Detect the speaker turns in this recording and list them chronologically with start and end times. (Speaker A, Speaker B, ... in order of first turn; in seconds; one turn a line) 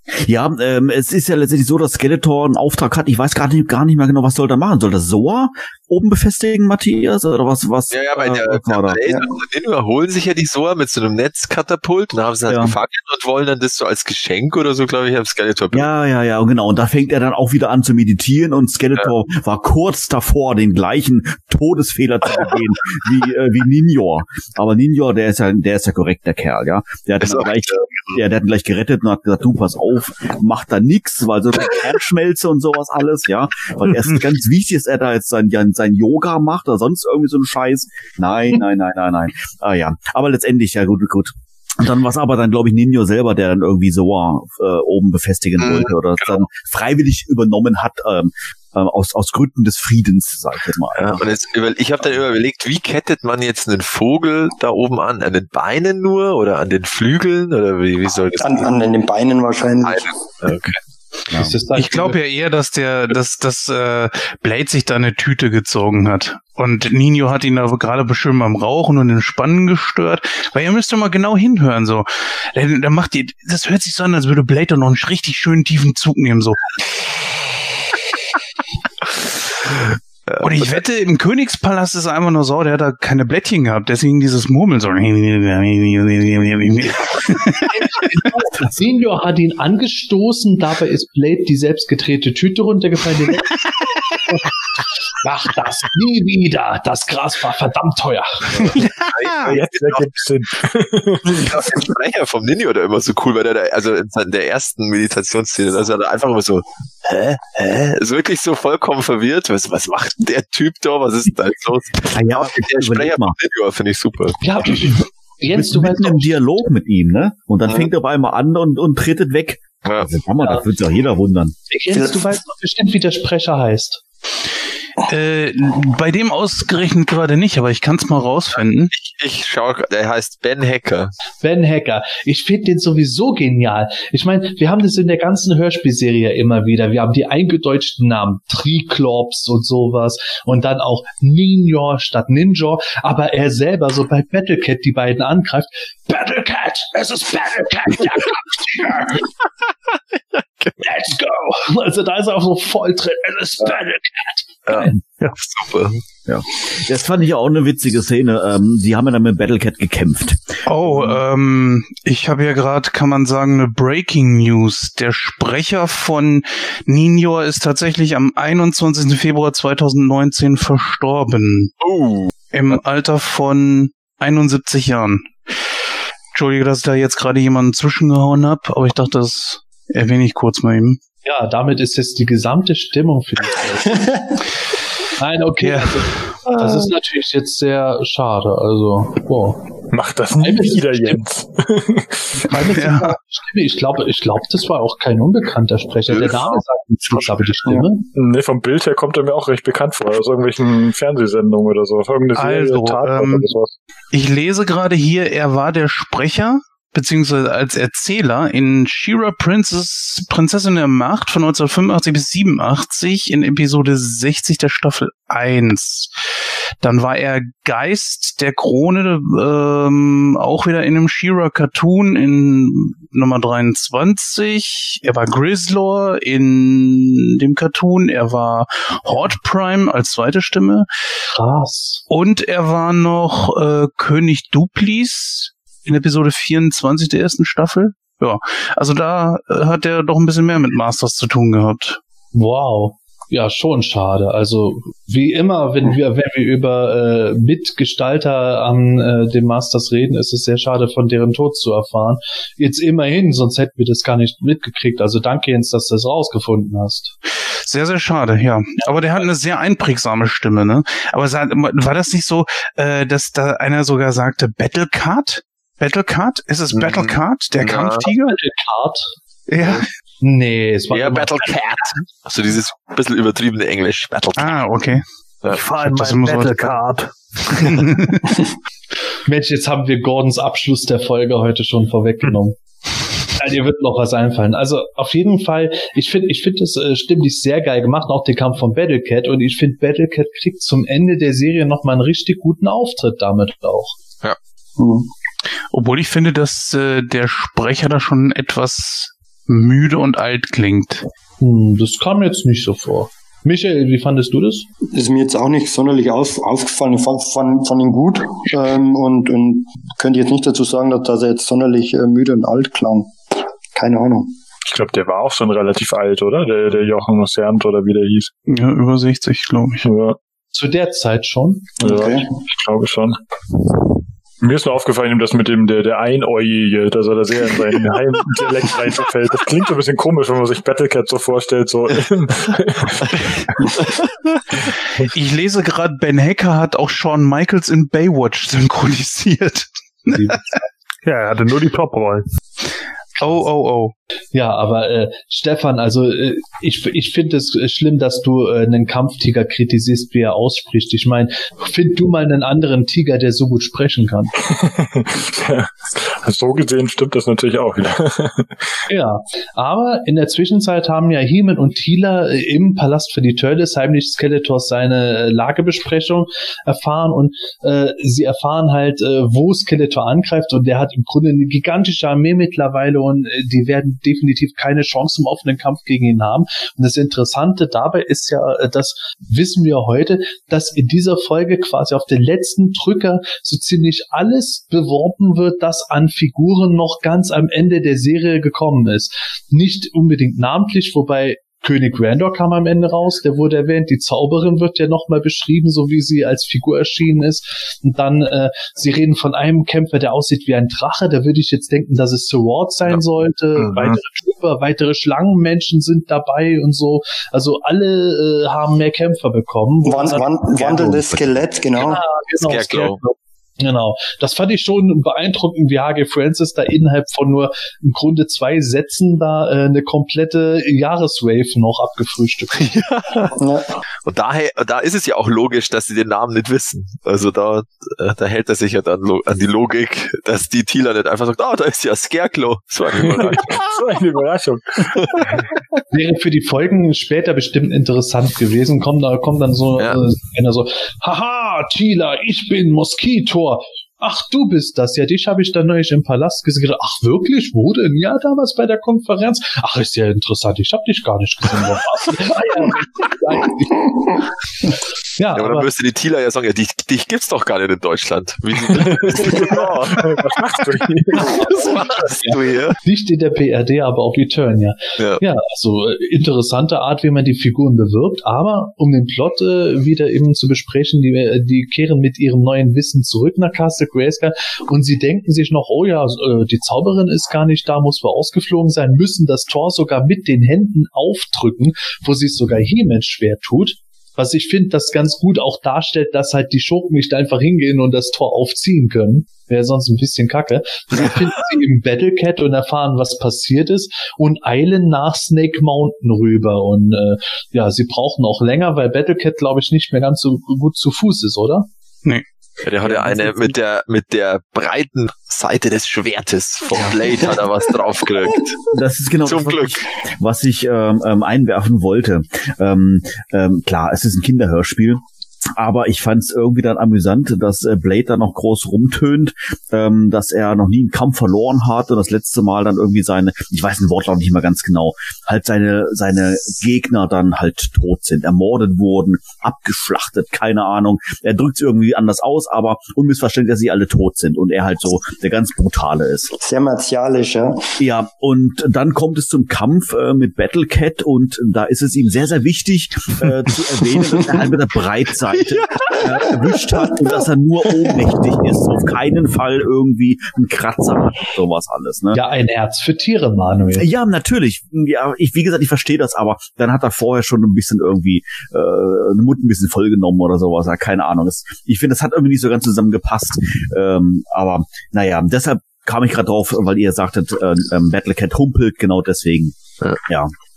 Speaker A: 0.2-9.0
Speaker B: 7.9-15.9
Speaker A: 12.5-12.8
Speaker A: 15.7-51.4
Speaker B: 27.2-28.1
Speaker B: 45.6-46.4
Speaker B: 50.9-58.7
Speaker C: 58.4-60.1
Speaker B: 59.8-60.8
Speaker D: 61.3-62.2
Speaker E: 61.7-76.7
Speaker B: 80.3-80.8
Speaker E: 80.4-88.2
Speaker D: 88.1-93.5
Speaker D: 95.2-98.8
Speaker B: 98.6-100.1
Speaker E: 98.8-99.5
Speaker F: 99.4-101.7
Speaker B: 101.2-114.8
Speaker A: 112.1-113.3
Speaker D: 114.4-116.3
Speaker A: 115.5-121.5
Speaker D: 121.7-124.0
Speaker C: 121.9-122.2
Speaker E: 125.0-128.9
Speaker B: 128.9-131.1
Speaker D: 131.4-149.2
Speaker D: 150.8-154.9
Speaker B: 154.7-156.0
Speaker A: 156.2-160.6
Speaker E: 160.7-171.7
Speaker B: 171.8-172.3
Speaker E: 172.5-175.3
Speaker E: 176.3-181.0
Speaker D: 181.2-184.2
Speaker D: 185.2-189.7
Speaker E: 185.6-186.2
Speaker F: 189.9-192.5
Speaker D: 190.4-191.2
Speaker D: 192.4-198.1
Speaker E: 192.6-193.2
Speaker F: 196.1-196.6
Speaker F: 197.1-203.7
Speaker E: 202.3-203.5
Speaker E: 204.1-216.1
Speaker E: 216.8-230.9
Speaker D: 231.3-232.0
Speaker E: 232.1-242.0
Speaker D: 242.3-257.1
Speaker E: 257.5-268.4
Speaker B: 266.7-268.1
Speaker D: 268.3-269.1
Speaker E: 269.5-269.8
Speaker D: 270.2-271.9
Speaker B: 270.9-274.6
Speaker E: 274.4-275.0
Speaker G: 275.5-277.1
Speaker E: 275.7-276.9
Speaker E: 277.5-278.3
Speaker D: 279.2-282.6
Speaker D: 283.3-294.0
Speaker C: 294.8-295.1
Speaker E: 295.7-301.1
Speaker D: 301.4-304.7
Speaker C: 304.9-314.3
Speaker F: 314.7-318.3
Speaker E: 318.5-319.9
Speaker F: 319.8-320.2
Speaker D: 320.5-321.8
Speaker F: 321.8-323.1
Speaker C: 321.8-322.3
Speaker F: 324.4-333.8
Speaker E: 335.1-340.4
Speaker G: 341.0-342.2
Speaker E: 343.2-343.9
Speaker D: 344.3-354.3
Speaker F: 354.4-358.8
Speaker D: 358.9-411.0
Speaker F: 403.6-404.0
Speaker C: 409.8-412.0
Speaker D: 411.8-422.7
Speaker B: 411.8-413.0
Speaker B: 422.6-423.3
Speaker C: 423.4-423.8
Speaker B: 424.1-433.7
Speaker F: 432.9-435.4
Speaker B: 435.0-435.4
Speaker D: 435.9-455.7
Speaker B: 455.3-462.8
Speaker F: 458.7-461.8
Speaker D: 461.3-461.6
Speaker D: 462.2-501.7
Speaker B: 465.0-465.2
Speaker B: 502.6-508.6
Speaker A: 502.8-503.5
Speaker A: 508.7-515.0
Speaker B: 509.2-509.9
Speaker A: 515.6-536.3
Speaker C: 536.4-537.7
Speaker A: 537.8-552.2
Speaker D: 552.1-553.9
Speaker A: 553.7-570.3